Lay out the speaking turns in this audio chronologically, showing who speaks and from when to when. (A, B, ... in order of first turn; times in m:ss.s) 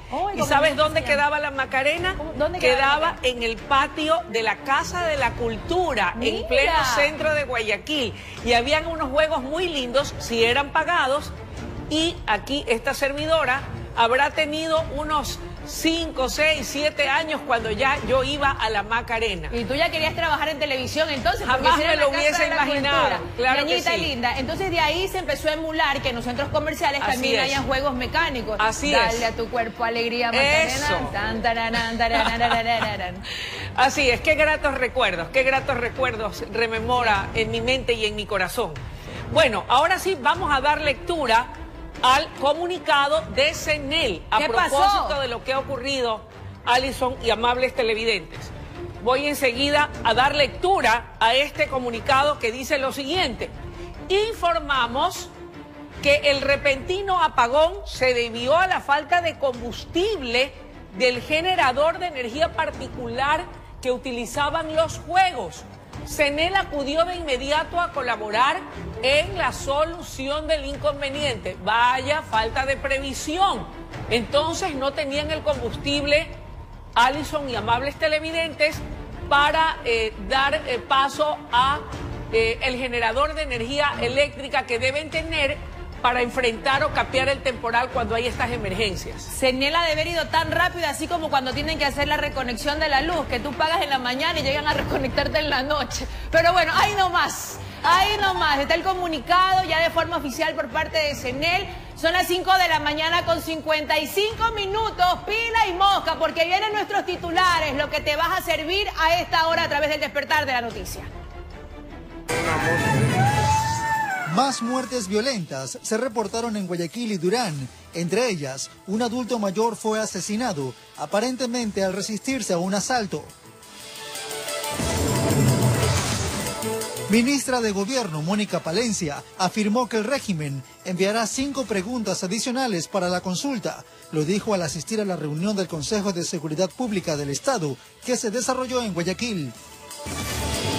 0:00.1-0:01.2 A
0:00.4-0:11.3 B
0:02.2-0:03.2 A
0:06.2-0:07.1 A
0:11.9-0:19.6 B
0:19.5-0:33.2 A
0:21.4-0:24.1 B
0:27.0-0:27.6 B
0:28.6-0:29.3 B
0:30.3-0:31.1 B
0:33.8-0:38.8 B
0:39.3-0:41.5 B
0:42.0-0:53.5 B
0:44.4-0:45.2 A
0:54.1-0:55.3 B
0:56.0-1:16.4 B
1:17.0-1:29.3 B
1:29.3-1:51.1 A
1:54.3-2:03.3 C
2:07.1-2:19.6 C